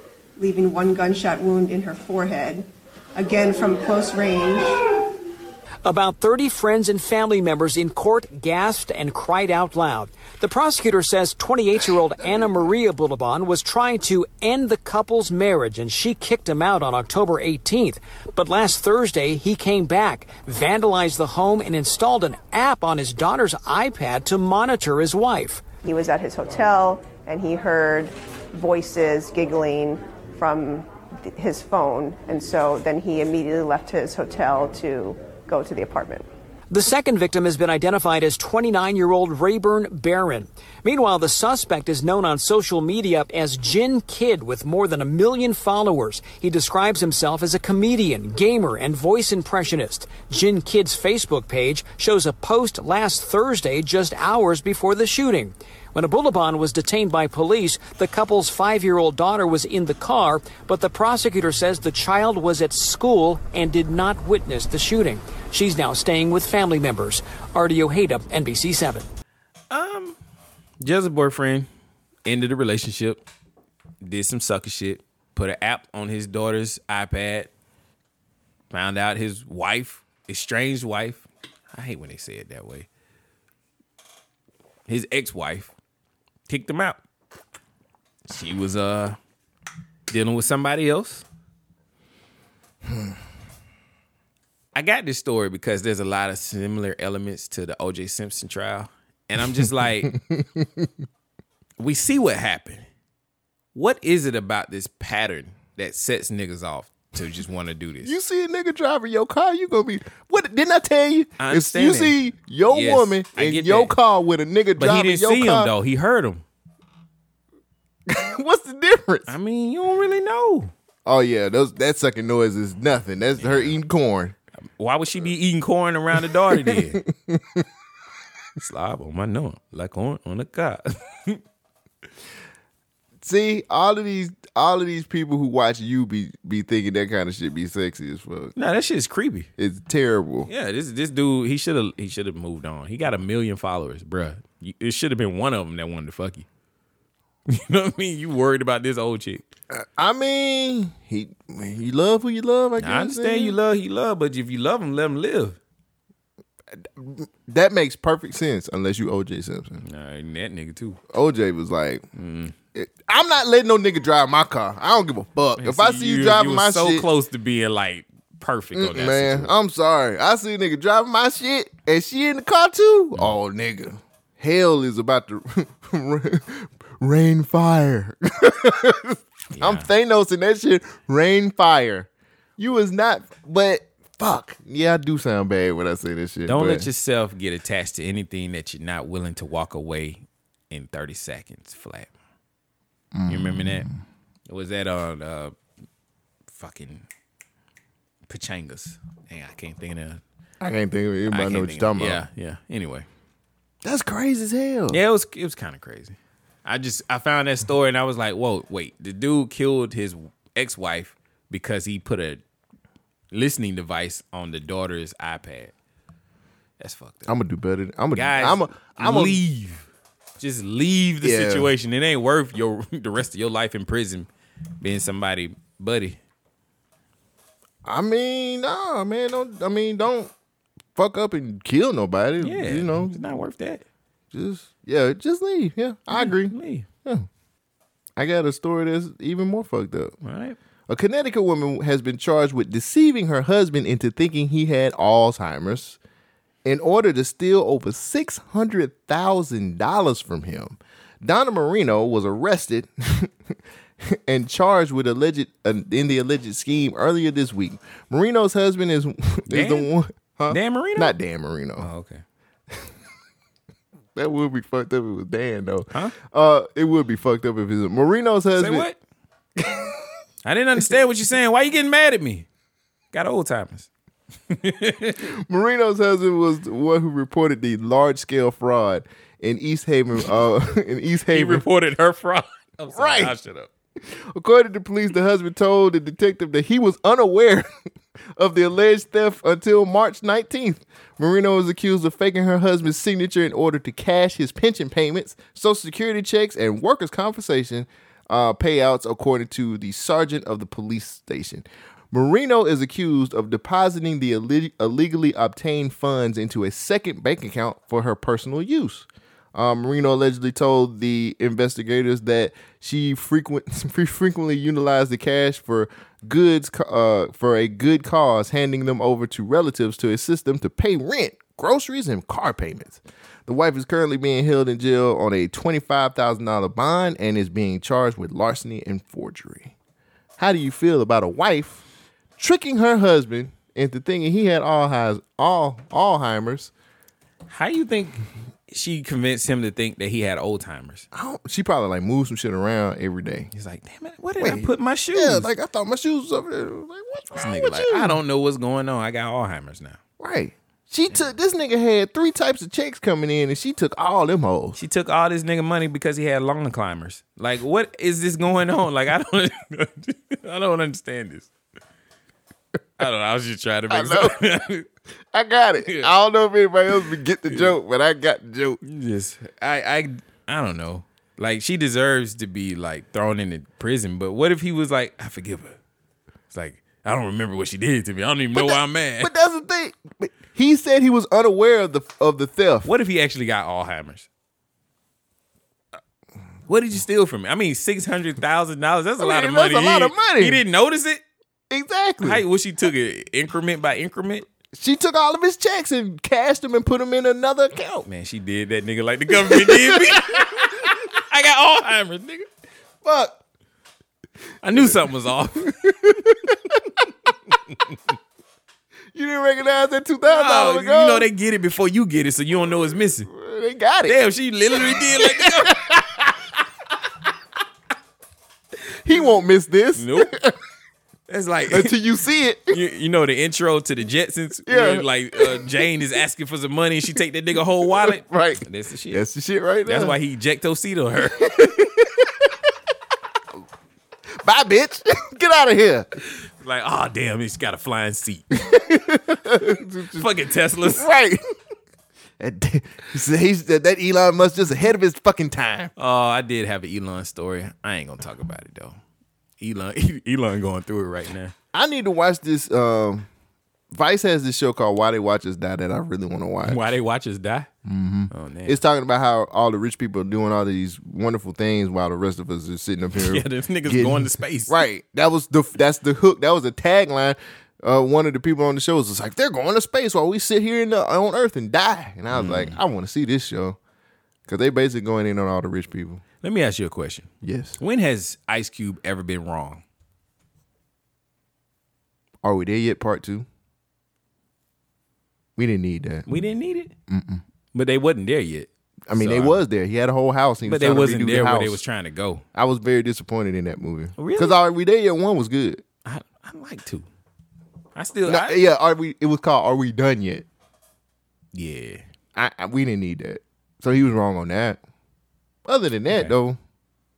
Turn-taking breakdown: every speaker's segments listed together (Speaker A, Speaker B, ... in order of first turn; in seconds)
Speaker A: 0.4-4.8, 25.8-36.2
Speaker B: 5.8-25.6, 36.7-69.0
Speaker C: 69.7-70.2, 70.8-71.7, 72.2-73.3, 74.0-77.5, 78.7-82.9, 84.9-85.7, 86.5-87.0, 88.3-89.2, 90.1-91.2, 94.7-100.2, 101.8-102.8, 103.7-108.1, 111.4-113.9, 114.8-116.4, 119.3-120.7, 123.4-123.8, 124.8-127.0, 128.6-131.4, 138.6-139.5, 140.5-146.4, 147.5-149.4, 152.8-155.6, 159.8-161.0, 162.1-162.5, 165.6-169.5, 179.5-179.9, 186.5-192.1, 193.3-193.9, 194.5-195.5, 196.5-197.0, 198.3-200.2, 201.3-203.1, 204.9-212.4, 213.3-215.7, 216.8-217.3, 218.1-219.8, 220.4-224.3, 224.8-226.2, 232.4-233.8, 236.1-236.9, 240.2-240.6, 259.5-259.9, 260.5-261.1, 261.8-262.2, 268.6-269.0, 270.4-272.5, 273.1-273.9, 274.5-275.2, 281.3-283.7, 337.5-341.1, 343.5-345.5, 347.3-350.0, 354.7-361.5, 363.0-364.9, 367.4-367.7, 368.8-375.8, 376.5-379.3, 382.8-384.3, 386.7-391.2, 392.2-394.4, 398.0-402.5, 404.6-406.5, 410.2-413.3, 414.1-415.8, 419.9-420.3, 421.3-421.9, 422.7-429.2, 429.9-431.9, 436.3-438.5, 440.1-441.1, 446.0-449.0, 449.6-451.5, 456.6-457.7, 458.3-458.8, 463.1-464.8, 472.3-472.8, 476.4-477.3, 477.8-479.8, 486.3-486.9, 487.7-489.6, 490.6-492.4, 494.2-494.6, 496.0-497.1, 497.9-498.6, 501.5-502.0
Speaker D: 100.0-100.9, 108.0-115.7, 118.1-119.3, 121.0-124.3, 126.5-127.7, 133.2-138.5, 139.6-140.5, 149.7-153.6, 156.8-159.8, 161.1-162.0, 162.7-167.1, 168.7-186.9, 193.1-193.9, 200.6-202.2, 203.8-205.0, 217.3-219.4, 221.2-221.7, 227.8-230.3, 230.9-233.2, 234.3-237.2, 238.2-240.1, 240.9-246.0, 246.6-253.3, 254.0-261.9, 264.1-268.9, 269.6-270.0, 275.2-281.6, 282.9-283.3, 284.1-287.7, 288.4-329.7, 330.4-331.8, 332.4-336.7, 341.1-343.5, 344.4-348.2, 350.2-354.8, 363.9-364.4, 365.3-368.8, 378.5-382.9, 389.2-390.6, 391.7-392.4, 394.7-398.1, 399.3-401.0, 403.0-403.4, 405.6-406.9, 409.1-411.3, 413.3-414.2, 414.7-416.5, 419.0-420.6, 421.7-422.8, 424.7-425.7, 427.8-430.1, 431.4-432.5, 434.4-436.1, 438.5-441.4, 442.4-445.9, 451.7-453.3, 453.9-456.8, 457.8-473.8, 474.5-476.2, 477.4-477.8, 482.4-483.4, 485.6-486.2, 487.1-487.4, 489.1-491.8, 492.5-495.8, 498.2-500.4, 502.3-504.8, 505.6-506.6